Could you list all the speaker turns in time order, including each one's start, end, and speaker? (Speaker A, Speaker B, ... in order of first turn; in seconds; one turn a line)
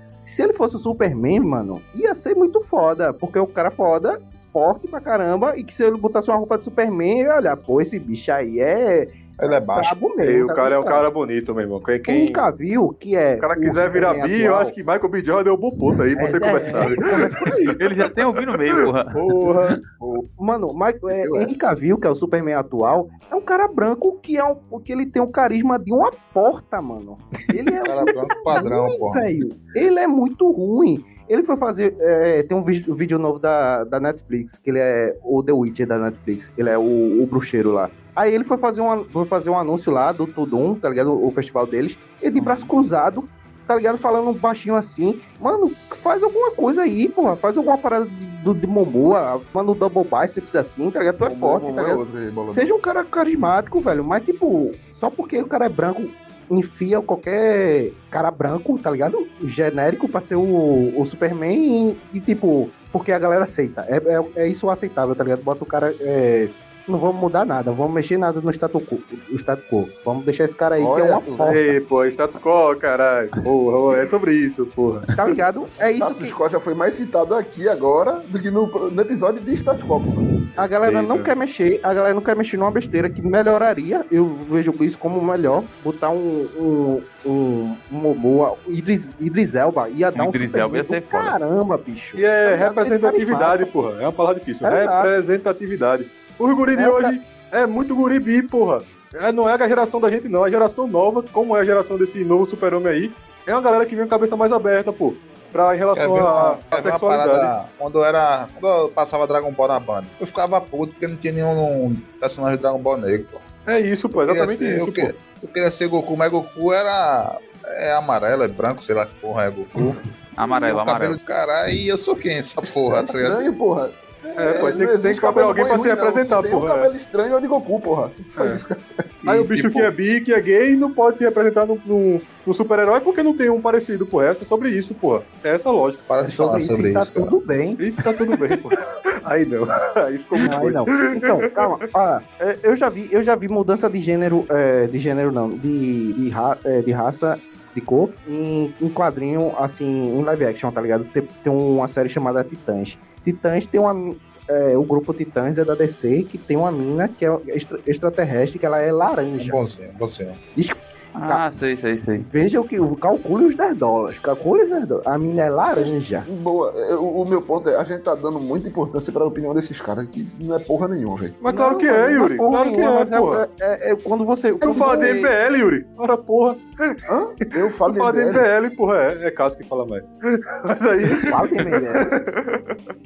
Speaker A: 0.2-11.0
Speaker B: 9.4-9.9
Speaker C: 10.2-12.4
Speaker A: 12.1-14.7
Speaker C: 13.4-18.6
Speaker A: 16.1-17.8
Speaker D: 17.8-19.8
Speaker C: 19.1-19.8
Speaker A: 20.4-71.7
Speaker E: 21.1-21.5
Speaker B: 27.8-29.3
Speaker E: 42.4-42.7
Speaker E: 51.2-52.7
Speaker E: 70.8-71.6
Speaker C: 71.4-75.1
Speaker A: 75.1-76.3
Speaker E: 76.0-80.8
Speaker A: 80.5-93.7
Speaker C: 80.8-81.2
Speaker D: 90.1-91.4
Speaker C: 92.2-107.5
Speaker A: 94.6-95.1
Speaker A: 96.7-97.2
Speaker B: 105.9-113.4
Speaker C: 113.7-115.1
Speaker B: 114.2-123.5
Speaker D: 120.3-121.2
Speaker E: 122.6-129.9
Speaker C: 124.4-126.9
Speaker C: 128.3-128.6
Speaker C: 129.2-136.0
Speaker B: 136.1-137.3
Speaker A: 136.2-137.8
Speaker C: 137.8-141.8
Speaker A: 140.4-159.6
Speaker B: 159.4-160.4
Speaker A: 160.6-161.4
Speaker D: 161.2-162.3
Speaker A: 162.2-166.2
Speaker E: 165.7-171.4
Speaker C: 171.4-173.4
Speaker A: 171.5-175.3
Speaker C: 174.6-177.0
Speaker E: 174.6-175.1
Speaker E: 177.1-178.5
Speaker C: 177.8-182.8
Speaker A: 181.1-182.1